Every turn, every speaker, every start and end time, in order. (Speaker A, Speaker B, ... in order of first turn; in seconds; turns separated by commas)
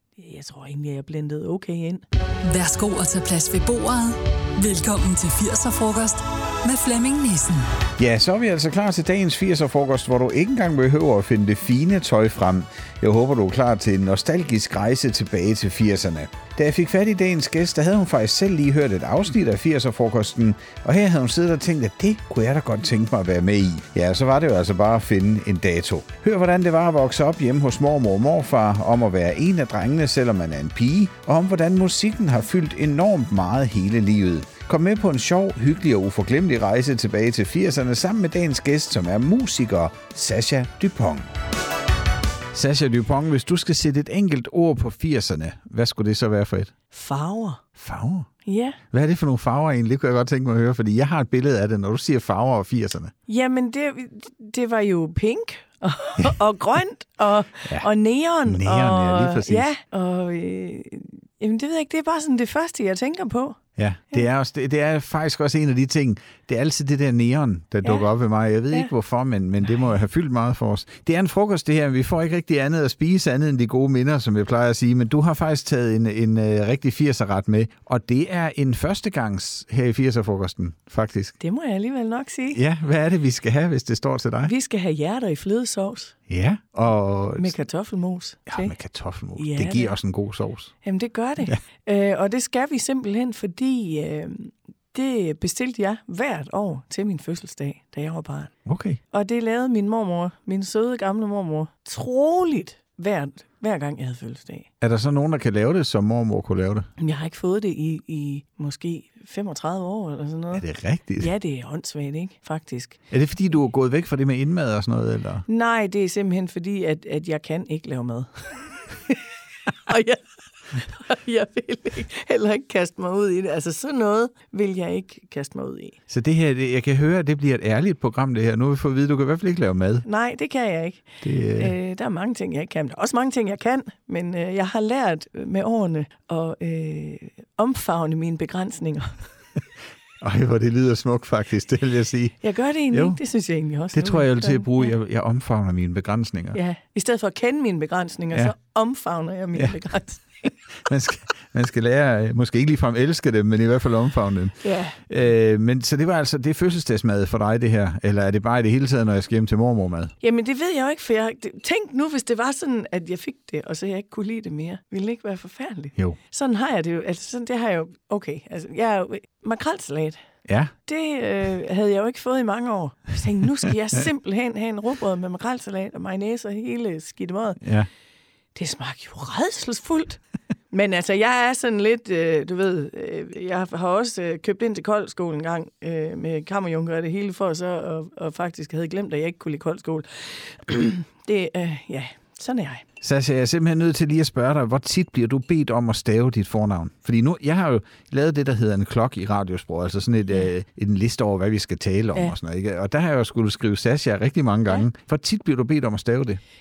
Speaker A: 0.1-2.0, Speaker B: 2.4-7.7, Speaker C: 8.0-41.3, Speaker C: 42.5-46.7, Speaker A: 46.9-47.6, Speaker C: 47.8-48.3, Speaker A: 48.4-48.8, Speaker C: 48.9-53.1, Speaker A: 53.3-63.6, Speaker C: 58.4-59.7, Speaker C: 63.8-81.3, Speaker A: 81.4-82.6, Speaker C: 82.5-84.5, Speaker A: 84.4-86.2, Speaker C: 86.3-87.5, Speaker A: 87.4-88.7, Speaker C: 88.5-90.7, Speaker A: 89.4-89.9, Speaker A: 90.8-98.5, Speaker C: 98.6-99.0, Speaker A: 99.1-104.7, Speaker C: 104.8-106.9, Speaker A: 107.0-110.6, Speaker C: 110.5-111.3, Speaker A: 111.2-113.0, Speaker C: 113.1-115.4, Speaker A: 115.5-119.2, Speaker A: 119.8-126.0, Speaker C: 126.1-130.1, Speaker A: 130.0-139.2, Speaker C: 131.2-131.7, Speaker C: 140.2-143.2, Speaker A: 142.4-144.9, Speaker C: 143.9-146.6, Speaker A: 146.5-150.5, Speaker C: 150.8-160.1, Speaker A: 154.6-155.0, Speaker A: 160.2-170.2, Speaker C: 170.5-170.7, Speaker A: 170.8-177.6, Speaker C: 177.6-177.9, Speaker A: 178.5-192.8, Speaker C: 193.0-206.4